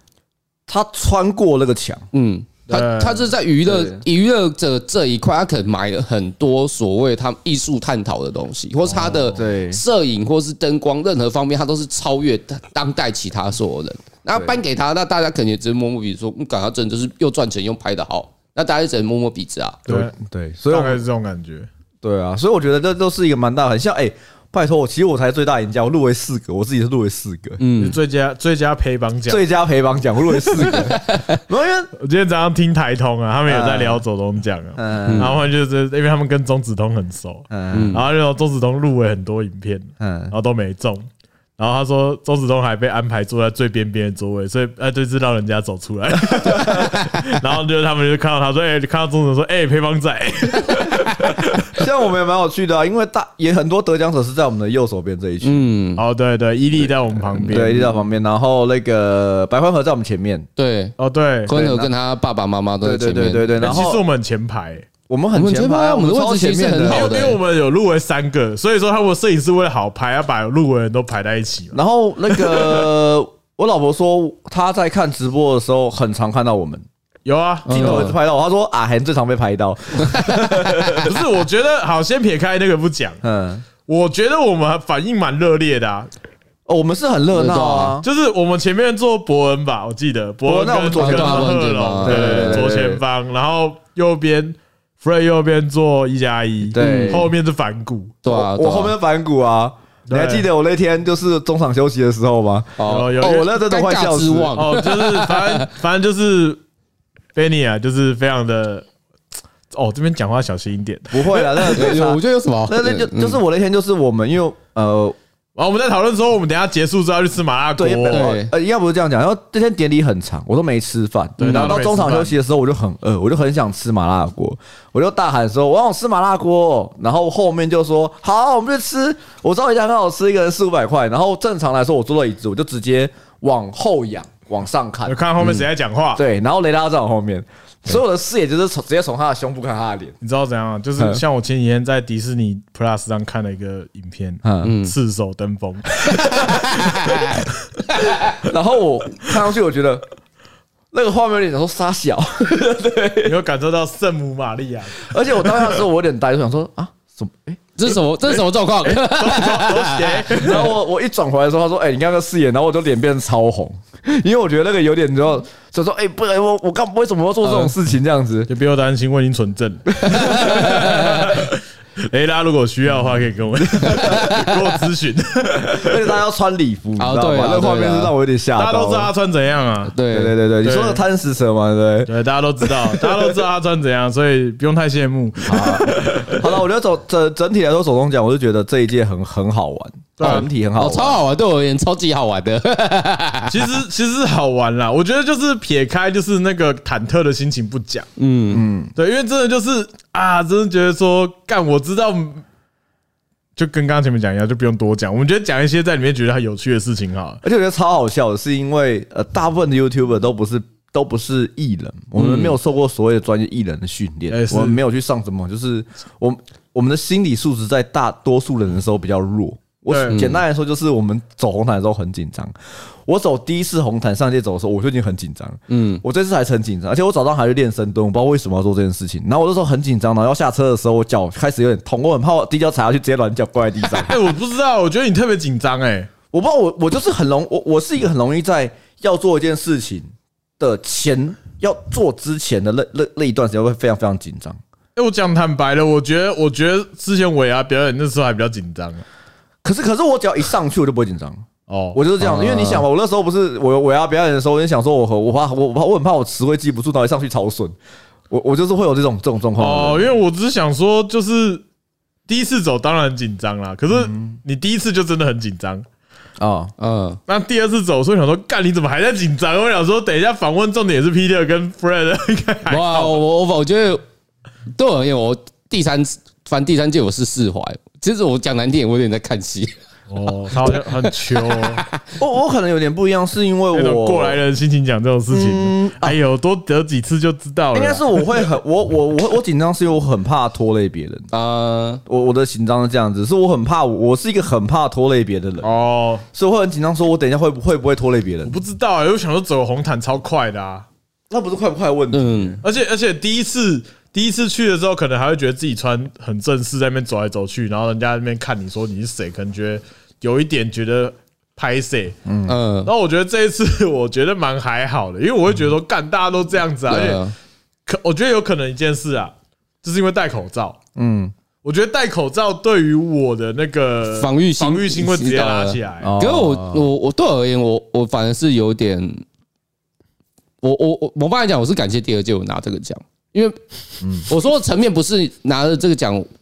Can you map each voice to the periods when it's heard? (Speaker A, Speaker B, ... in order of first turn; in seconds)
Speaker A: 0.7-2.0, 3.6-4.0, 9.2-9.8, 19.9-21.0, 22.0-27.6, 29.3-31.9, 33.5-34.0, 34.8-35.4, 37.5-38.0, 40.0-40.3, 46.4-46.8, 51.6-55.6, 57.5-60.5, 61.5-61.9, 62.8-64.0, 65.1-67.2, 71.7-76.8, 77.7-81.2, 83.2-83.6, 86.7-88.0, 90.4-93.0, 96.7-97.3, 98.3-104.6, 111.1-115.2, 117.8-135.2, 136.2-140.1, 144.4-144.7, 148.4-150.0, 150.9-153.3, 155.0-157.7, 160.4-168.5, 170.0-170.6, 173.6-174.3, 175.6-179.1, 180.1-183.3, 185.4-191.2, 198.5-198.9, 207.4-222.5, 223.1-234.1, 236.3-240.1, 240.6-244.6, 249.6-257.7, 258.3-260.1, 264.0-264.4, 266.4-266.7, 282.2-284.4, 285.3-286.2, 287.7-291.3, 292.1-295.7, 296.3-298.6, 301.3-302.6, 312.2-312.6, 320.9-321.3, 326.0-326.9, 334.0-334.3
Speaker B: 2.1-19.8, 27.6-28.0, 30.5-31.4, 35.0-35.4, 37.7-38.0, 55.4-56.0, 57.3-57.6, 60.6-60.9, 61.5-63.8, 65.3-67.4, 77.6-78.2, 87.3-88.0, 90.9-92.8, 96.8-97.3, 98.2-98.9, 102.8-105.7, 111.6-113.4, 118.1-118.5, 121.4-121.9, 144.6-144.9, 146.1-148.3, 157.8-160.7, 167.4-167.7, 170.1-171.4, 173.9-174.7, 177.0-178.1, 179.9-180.3, 190.2-193.7, 198.2-198.6, 212.2-212.5, 220.1-220.4, 225.7-226.0, 252.2-252.8, 266.8-267.2, 272.7-274.0, 274.7-279.7, 280.5-282.1, 291.3-292.0, 302.1-302.6, 312.4-312.9, 316.9-317.4, 324.1-329.2, 330.6-333.6, 334.2-336.3
Speaker C: 2.7-3.3, 8.9-9.4, 19.9-20.1, 20.7-21.7, 27.8-29.4, 31.9-41.0, 41.6-51.8, 56.0-57.8, 61.0-61.8, 63.6-64.9, 66.8-71.8, 72.3-72.9, 77.2-78.1, 80.9-83.2, 83.8-86.1, 88.0-98.1, 100.1-100.5, 102.8-103.5, 104.5-106.6, 107.3-108.9, 109.7-111.8, 115.5-118.3, 121.4-122.3, 135.1-136.2, 140.2-147.4, 153.2-155.7, 158.3-160.7, 168.5-176.1, 178.6-180.0, 180.6-181.0, 182.1-186.5, 190.2-190.5, 193.5-198.1, 198.9-202.4, 203.6-207.4, 214.3-214.8, 219.9-220.3, 234.0-236.1, 244.9-249.0, 251.7-252.0, 259.6-261.6, 262.3-265.8, 267.3-273.2, 280.1-281.8, 283.7-288.5, 295.6-296.2, 298.4-300.9, 302.6-312.2, 312.8-317.2, 317.9-320.8, 321.6-326.1